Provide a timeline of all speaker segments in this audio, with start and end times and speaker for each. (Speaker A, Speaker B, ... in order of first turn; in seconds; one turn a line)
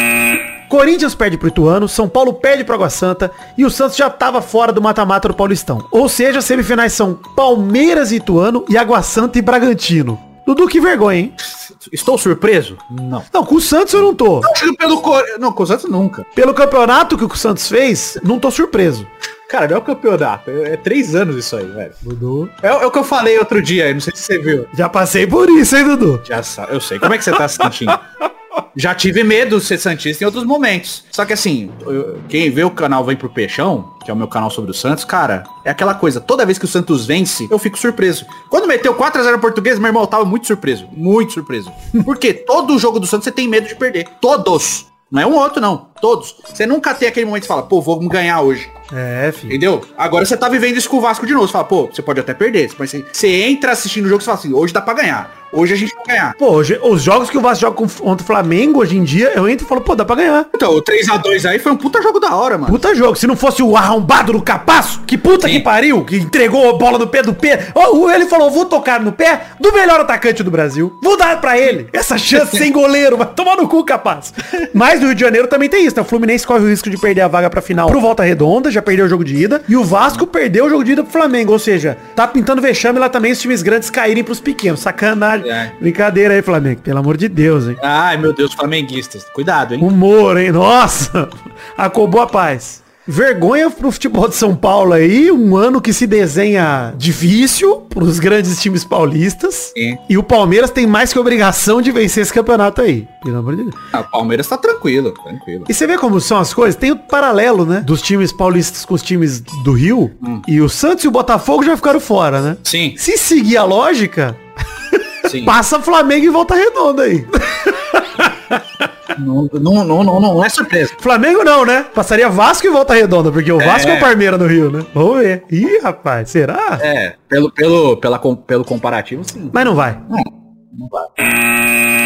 Speaker A: 0.7-11.3
Speaker B: 11.4-13.3
Speaker A: 13.3-14.5
Speaker B: 14.0-16.3
Speaker A: 16.4-19.1
Speaker B: 19.5-22.0
Speaker A: 22.0-22.5
Speaker B: 22.6-24.7
Speaker A: 24.7-26.2
Speaker B: 26.2-28.0
Speaker A: 27.6-27.9
Speaker B: 28.8-48.7
Speaker A: 48.9-49.6
Speaker B: 49.5-56.4
Speaker A: 56.4-60.5
Speaker B: 60.5-62.8
Speaker A: 62.7-87.8
Speaker B: 72.3-72.6
Speaker B: 85.4-85.7
Speaker B: 87.8-89.9
Speaker A: 89.8-103.8
Speaker B: 103.9-105.7
Speaker A: 105.7-114.4
Speaker B: 112.7-113.0
Speaker A: 114.9-118.9
Speaker B: 115.2-115.5
Speaker B: 119.2-121.0
Speaker A: 121.0-126.8
Speaker B: 123.6-124.1
Speaker B: 126.8-129.6
Speaker A: 129.5-130.0
Speaker B: 130.1-131.1